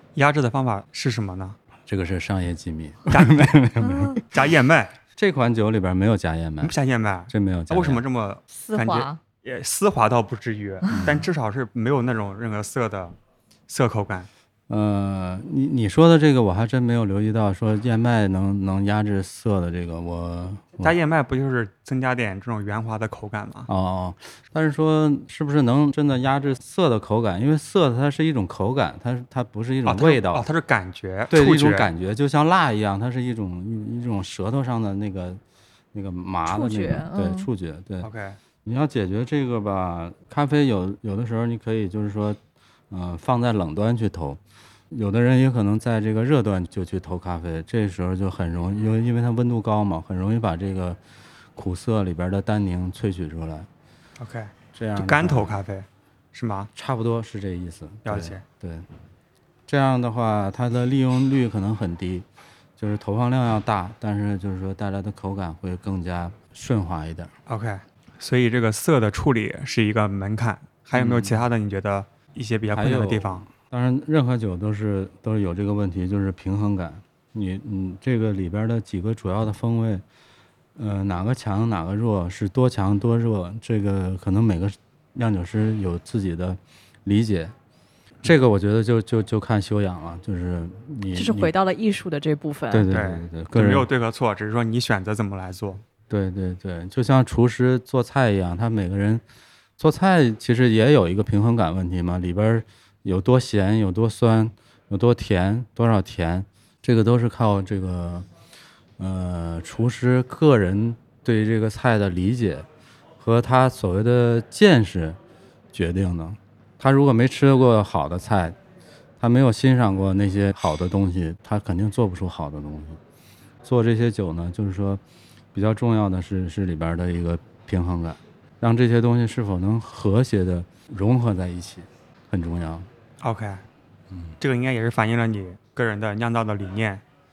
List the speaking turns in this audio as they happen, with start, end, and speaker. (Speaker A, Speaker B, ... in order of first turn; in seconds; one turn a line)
Speaker A: 0.2-1.6
Speaker B: 1.9-4.2
Speaker A: 3.1-3.5
Speaker C: 3.8-4.2
Speaker A: 4.3-4.9
Speaker B: 5.2-6.8
Speaker A: 6.6-13.2
Speaker B: 7.3-8.0
Speaker C: 8.5-9.2
Speaker B: 10.9-11.3
Speaker A: 13.7-14.3
Speaker B: 14.7-21.0
Speaker A: 20.8-23.7
Speaker B: 23.7-30.5
Speaker A: 29.9-31.9
Speaker B: 31.3-35.4
Speaker B: 35.9-38.1
Speaker C: 36.5-37.5
Speaker A: 38.0-38.4
Speaker B: 38.6-42.4
Speaker B: 42.9-44.4
Speaker B: 44.9-51.0
Speaker B: 51.6-53.7
Speaker A: 54.2-56.7
Speaker B: 54.7-55.6
Speaker B: 56.8-58.9
Speaker A: 58.0-58.4
Speaker B: 59.7-62.2
Speaker B: 62.8-67.3
Speaker A: 67.5-73.5
Speaker B: 71.0-71.4
Speaker B: 72.7-80.0
Speaker B: 80.8-87.5
Speaker B: 88.2-91.5
Speaker C: 91.1-92.9
Speaker B: 92.7-93.9
Speaker A: 92.9-95.8
Speaker B: 96.1-99.2
Speaker B: 99.8-108.3
Speaker B: 109.0-112.7
Speaker B: 113.2-115.2
Speaker B: 115.7-118.6
Speaker B: 119.2-123.0
Speaker B: 123.6-125.0
Speaker B: 125.5-132.9
Speaker A: 133.2-133.6
Speaker B: 134.1-134.4
Speaker A: 134.4-137.0